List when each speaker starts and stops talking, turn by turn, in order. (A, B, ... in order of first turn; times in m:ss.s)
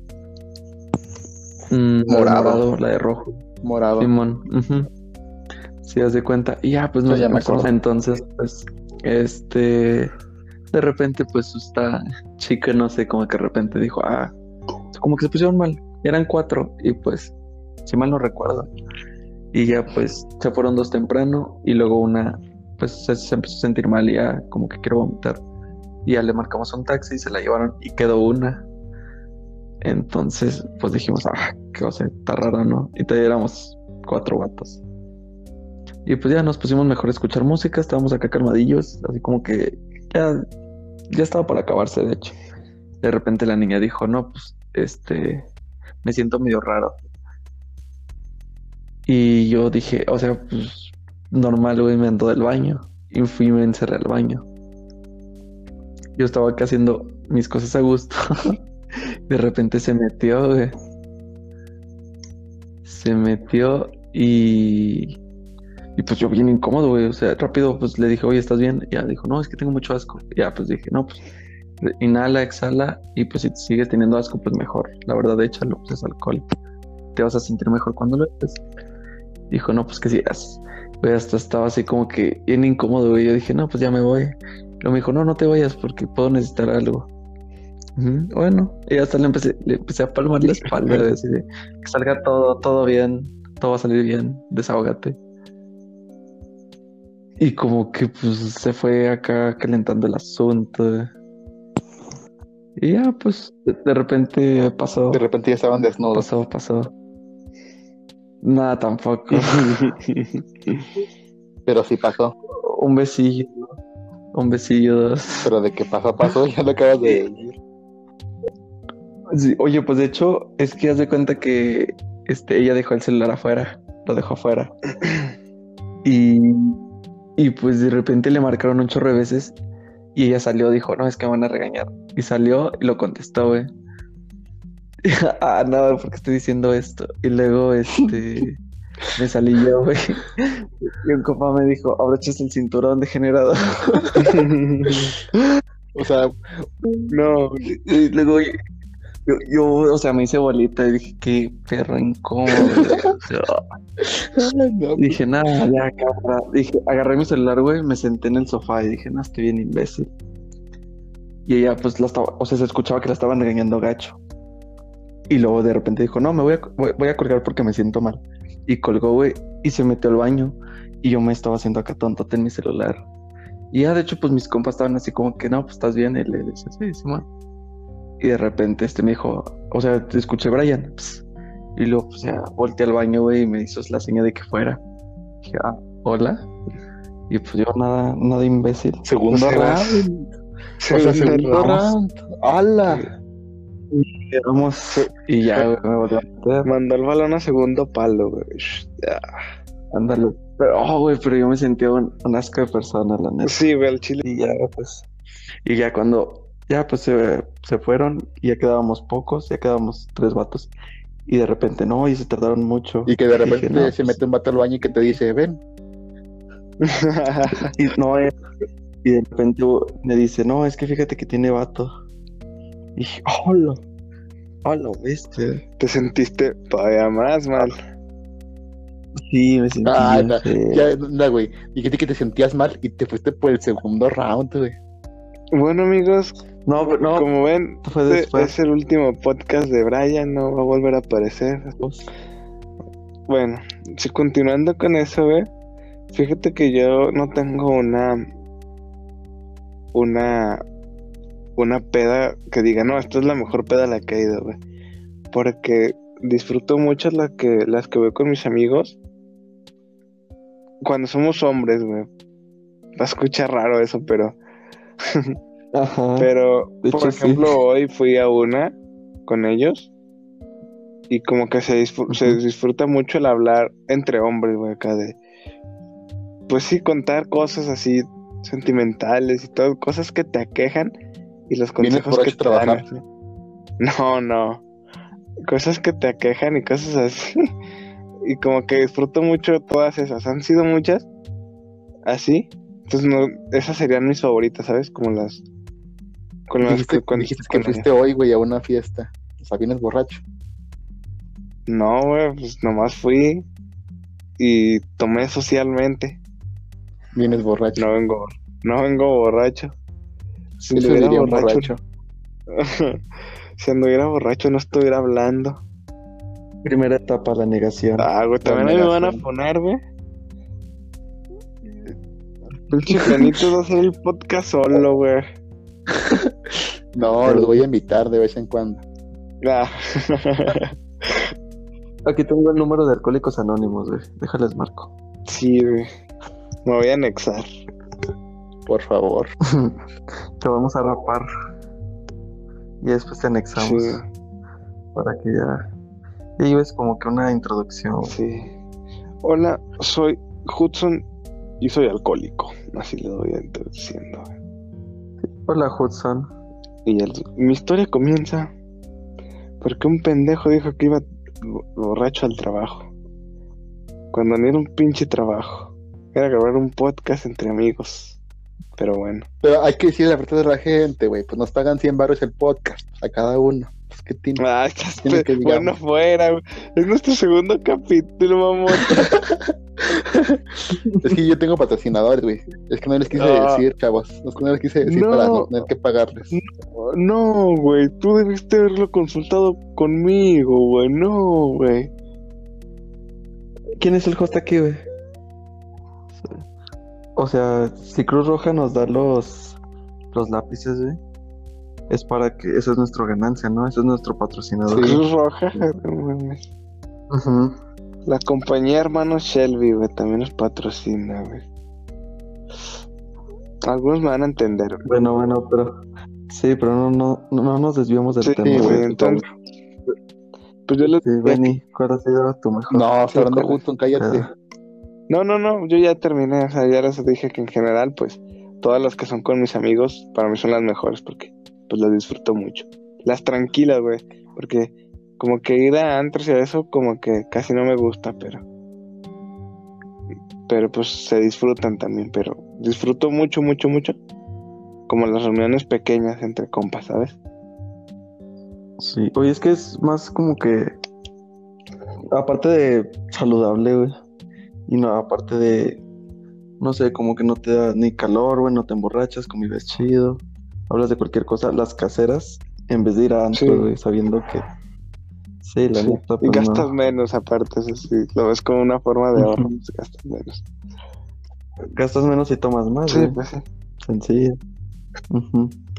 0:01.7-0:03.4 A
0:02.1-0:02.6 B
0:03.6-0:04.1 B
0:04.0-0:04.9 A
0:05.8-0:10.1 A
0:07.1-0:07.7 B
0:10.7-0:14.4 A
0:14.9-0:17.3 A
0:17.9-0:18.7 A
0:19.5-0:25.4 A
0:26.1-0:28.7 A
0:29.8-0:34.8 A
0:36.1-0:40.4 A
0:41.1-0:42.4 A
0:43.0-0:45.5 A
0:46.0-0:47.0 A
0:49.1-0:54.5 A
0:56.2-0:58.6 A
0:59.3-1:00.7 A
1:02.8-1:05.2 A
1:06.0-1:11.2 A
1:11.8-1:16.5 A
1:17.1-1:18.6 A
1:19.5-1:27.1 A
1:28.0-1:35.2 A
1:37.4-1:41.1 A
1:42.8-1:45.2 A
1:45.1-1:46.3 B
1:46.1-1:46.9 A
1:48.4-1:49.8 A
1:49.4-1:50.9 C
1:51.7-1:52.3 B
1:52.6-1:53.8 A
1:54.3-1:55.5 A
1:55.4-1:57.6 B
1:59.3-2:04.7 A
2:06.0-2:06.8 A
2:07.4-2:09.6 A
2:10.2-2:13.7 A
2:15.0-2:18.6 A
2:19.2-2:24.1 A
2:24.0-2:24.3 B
2:24.2-2:25.2 C
2:26.0-2:27.1 B
2:27.1-2:27.7 C
2:27.8-2:28.6 A
2:29.3-2:33.6 A
2:34.2-2:35.2 B
2:35.0-2:40.1 A
2:41.5-2:44.2 A
2:45.3-2:53.0 A
2:53.7-2:57.3 A
2:58.2-3:01.2 A
3:01.8-3:04.8 A
3:05.4-3:06.4 A
3:07.3-3:10.0 A
3:09.1-3:10.3 B
3:10.8-3:11.8 C
3:10.9-3:13.1 B
3:13.9-3:16.7 A
3:14.9-3:15.7 C
3:16.6-3:19.4 C
3:19.9-3:23.6 A
3:23.4-3:24.2 C
3:24.2-3:25.1 A
3:25.7-3:30.7 A
3:31.3-3:34.1 A
3:33.1-3:35.6 B
3:36.8-3:37.7 C
3:37.8-3:38.4 A
3:39.0-3:41.9 A
3:43.0-3:43.8 A
3:44.6-3:45.6 A
3:45.8-3:47.8 C
3:49.3-3:50.8 A
3:49.8-3:54.8 B
3:55.5-3:56.4 C
3:56.7-3:57.3 A
3:57.2-4:01.8 C
3:57.8-3:58.5 A
4:01.8-4:02.1 A
4:03.3-4:05.5 C
4:06.1-4:08.2 C
4:09.9-4:10.6 C
4:11.6-4:14.6 C
4:15.3-4:19.0 C
4:20.8-4:22.1 C
4:23.0-4:24.4 C
4:25.0-4:25.4 C
4:25.7-4:26.3 A
4:26.2-4:29.9 C
4:26.8-4:27.5 A
4:31.1-4:35.2 C
4:32.1-4:32.4 A
4:36.5-4:40.9 C
4:41.5-4:43.0 C
4:41.8-4:42.8 B
4:43.8-4:44.6 C
4:45.4-4:47.4 C
4:48.2-4:51.1 C
4:52.1-4:55.4 C
4:56.5-4:57.9 C
4:56.6-5:00.2 B
5:01.7-5:03.5 C
5:04.4-5:06.2 C
5:07.2-5:07.9 B
5:07.8-5:09.7 C
5:10.6-5:11.7 C
5:10.8-5:11.8 B
5:12.5-5:13.0 C
5:13.6-5:15.6 C
5:16.6-5:18.1 A
5:18.0-5:19.8 C
5:18.4-5:19.2 B
5:22.7-5:25.2 C
5:23.1-5:23.4 B
5:26.0-5:26.3 B
5:27.0-5:28.8 B
5:27.2-5:27.6 A
5:29.4-5:31.3 C
5:32.1-5:34.9 A
5:35.3-5:35.9 C
5:36.6-5:37.5 C
5:38.7-5:39.3 B
5:39.5-5:39.8 A
5:40.4-5:41.3 A
5:42.8-5:44.0 A
5:43.6-5:44.0 C
5:45.0-5:45.7 A
5:46.4-5:48.2 A
5:48.0-5:48.5 C
5:49.2-5:51.0 C
5:51.6-5:54.3 C
5:55.2-5:56.3 A
5:56.9-5:58.5 C
5:59.6-6:02.9 C
6:04.1-6:08.2 C
6:08.8-6:09.3 C
6:09.4-6:14.4 B
6:14.4-6:19.1 C
6:15.0-6:15.7 B
6:18.7-6:20.4 B
6:21.0-6:26.3 B
6:23.2-6:23.6 C
6:24.8-6:25.6 C
6:26.3-6:31.9 C
6:33.8-6:34.8 A
6:36.2-6:36.4 A
6:37.2-6:39.6 A
6:40.1-6:41.0 A
6:41.9-6:45.0 A
6:44.7-6:45.0 B
6:44.8-6:46.5 C
6:47.1-6:47.6 A
6:48.1-6:51.4 C
6:53.6-6:54.8 C
6:54.8-6:59.3 A
6:58.2-6:59.2 C
6:58.4-6:58.8 B
7:00.7-7:01.5 C
7:00.8-7:04.3 A
7:02.7-7:04.3 B
7:05.1-7:18.4 C
7:20.5-7:24.0 C
7:24.9-7:27.2 C
7:28.8-7:30.8 A
7:32.1-7:34.0 A
7:34.7-7:35.8 A
7:36.6-7:44.5 A
7:43.3-7:43.7 C
7:45.4-7:46.7 A
7:45.8-7:50.4 C
7:49.2-7:49.5 A
7:51.7-7:53.2 A
7:52.9-7:53.4 C
7:53.8-7:54.4 A
7:55.1-7:55.6 A